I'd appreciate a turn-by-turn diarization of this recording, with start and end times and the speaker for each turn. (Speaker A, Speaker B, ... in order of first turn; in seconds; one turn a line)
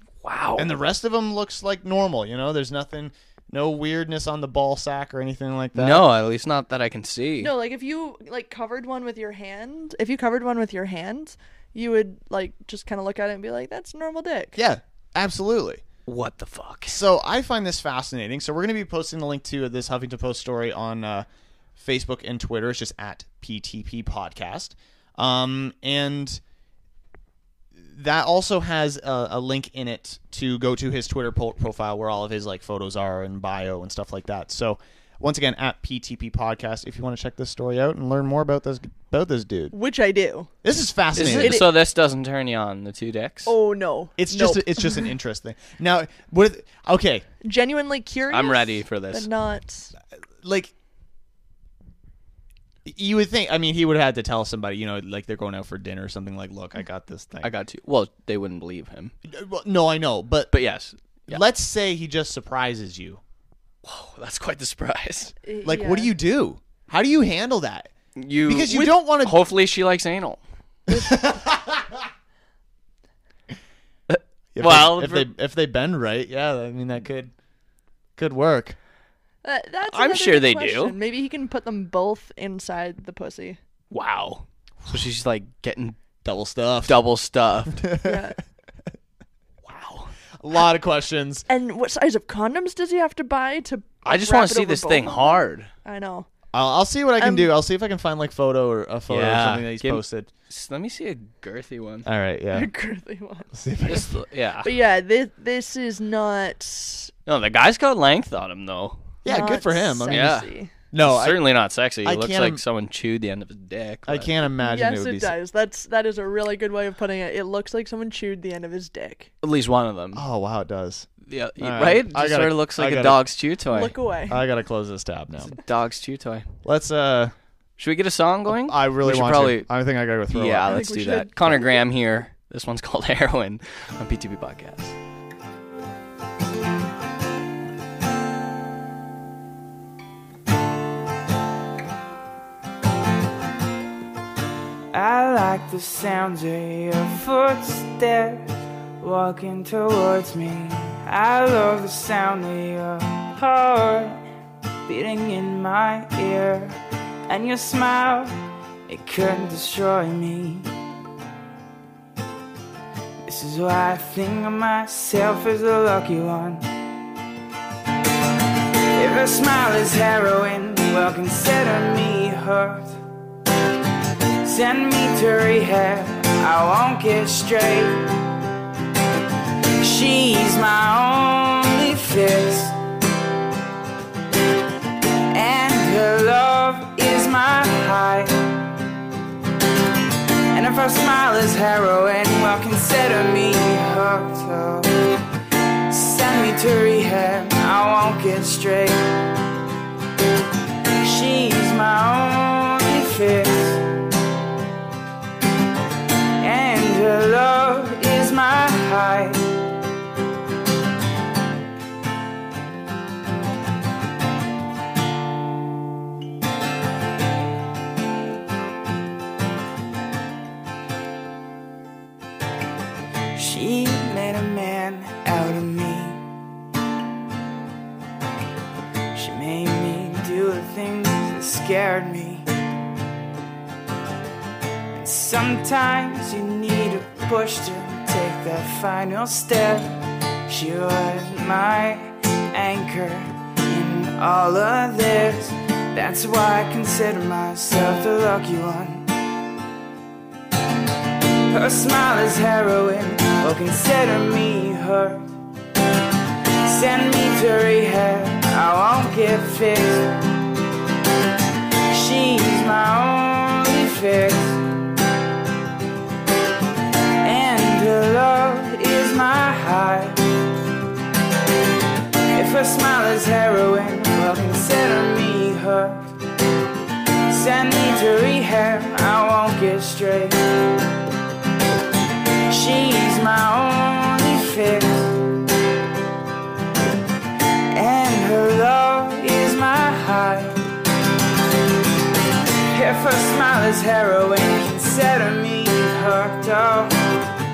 Speaker A: 0.2-0.8
Speaker B: 0.6-6.1
Speaker A: 5.8-7.5
Speaker C: 7.4-14.6
Speaker B: 14.6-15.8
Speaker A: 16.1-17.0
Speaker B: 16.9-26.4
Speaker B: 27.8-39.8
Speaker C: 39.7-40.5
Speaker B: 40.6-41.6
Speaker A: 41.1-43.5
Speaker C: 41.4-41.7
Speaker C: 43.5-45.0
Speaker B: 44.2-47.3
Speaker C: 47.4-49.9
Speaker A: 48.3-49.3
Speaker B: 50.4-50.7
Speaker B: 52.9-57.5
Speaker A: 57.4-59.1
Speaker B: 59.3-60.5
Speaker A: 60.5-61.4
Speaker B: 61.3-63.2
Speaker A: 63.8-65.3
Speaker C: 65.4-66.2
Speaker B: 65.7-67.9
Speaker A: 68.2-70.4
Speaker B: 68.4-69.4
Speaker B: 70.9-72.0
Speaker A: 74.1-75.3
Speaker B: 74.5-77.3
Speaker B: 78.2-78.8
Speaker C: 79.4-83.6
Speaker A: 79.9-81.0
Speaker A: 83.9-86.0
Speaker B: 86.2-87.0
Speaker A: 86.8-87.9
Speaker B: 87.8-88.3
Speaker C: 88.0-88.4
Speaker A: 89.7-90.1
Speaker B: 90.4-91.5
Speaker C: 91.5-96.3
Speaker A: 94.0-95.7
Speaker B: 96.5-100.3
Speaker C: 97.2-97.5
Speaker A: 99.1-102.1
Speaker B: 102.0-102.7
Speaker C: 102.5-103.5
Speaker B: 103.5-104.1
Speaker A: 103.9-104.7
Speaker C: 104.6-107.1
Speaker A: 107.3-109.0
Speaker B: 109.2-110.3
Speaker C: 109.3-110.7
Speaker A: 110.1-114.3
Speaker B: 110.9-111.5
Speaker B: 112.0-112.6
Speaker B: 114.1-115.4
Speaker C: 114.6-119.3
Speaker A: 119.4-120.2
Speaker B: 120.1-123.2
Speaker A: 121.3-124.0
Speaker C: 123.7-124.4
Speaker B: 124.3-125.6
Speaker A: 125.4-126.5
Speaker B: 126.6-127.3
Speaker A: 127.8-129.7
Speaker B: 128.5-130.8
Speaker A: 130.3-135.0
Speaker C: 130.7-131.8
Speaker D: 144.9-148.5
Speaker D: 149.0-154.2
Speaker D: 154.9-158.3
Speaker D: 158.9-160.7
Speaker D: 163.2-166.7
Speaker D: 168.9-173.0
Speaker D: 174.4-178.1
Speaker D: 179.8-182.8
Speaker D: 185.3-188.4
Speaker D: 190.5-194.9
Speaker D: 195.9-199.1
Speaker D: 201.0-203.8
Speaker D: 206.4-209.4
Speaker D: 223.3-226.2
Speaker D: 229.1-232.5
Speaker D: 234.9-249.1
Speaker D: 251.5-255.3
Speaker D: 256.6-260.1
Speaker D: 261.9-264.6
Speaker D: 267.2-270.2
Speaker D: 272.4-276.1
Speaker D: 277.3-280.4
Speaker D: 282.5-285.2
Speaker D: 287.7-290.6
Speaker D: 292.7-296.9